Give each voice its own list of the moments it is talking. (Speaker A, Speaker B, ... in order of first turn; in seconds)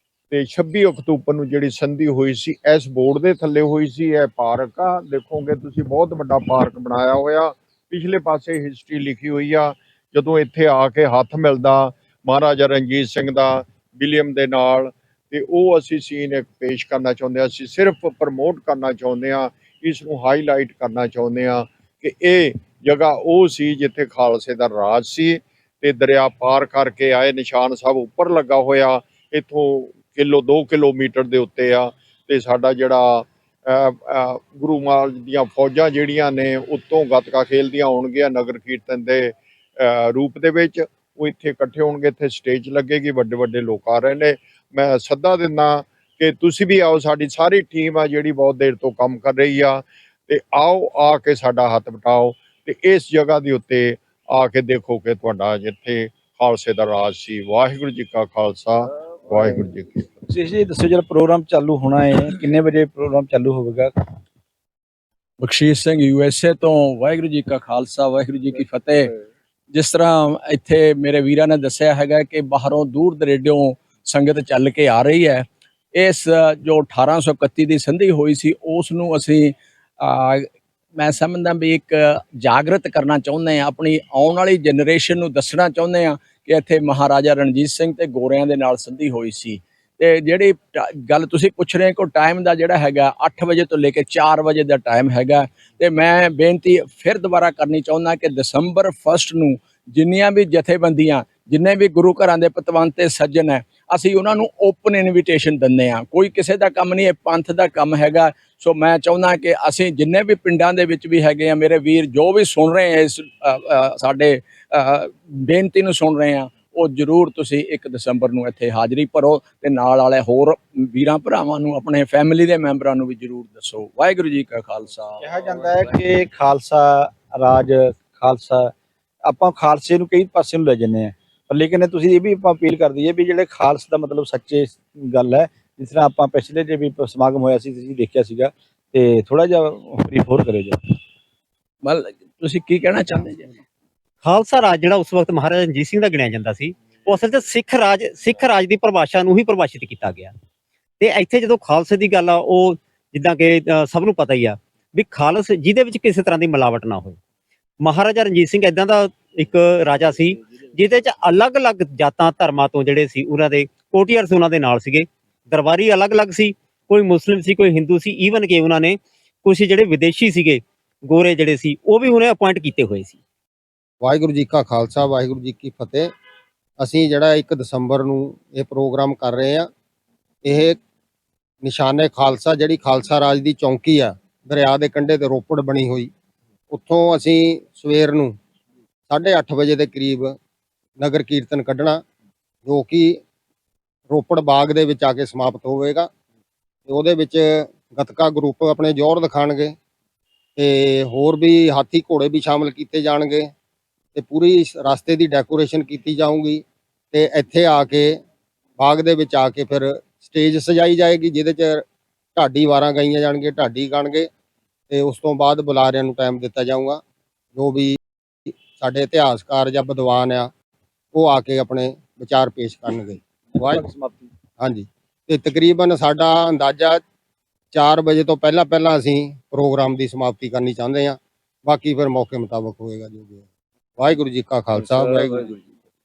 Speaker A: 0.3-60.1
Speaker B: 60.3-63.9, 125.2-128.7, 129.2-140.8, 223.9-224.2
Speaker C: 65.4-69.1, 69.7-126.0, 141.8-143.5
Speaker D: 144.2-150.3, 151.0-157.2, 157.8-173.2
Speaker E: 174.0-176.1, 176.8-179.7, 180.4-180.8, 181.6-186.1, 186.7-188.3, 189.1-190.3, 191.0-192.0, 192.6-193.2, 194.1-196.1, 196.9-199.7, 200.6-203.5, 204.1-208.2, 208.8-211.8, 212.3-214.3, 214.9-217.0, 217.5-220.5, 221.1-223.9, 224.6-227.0, 227.7-233.4, 234.0-235.5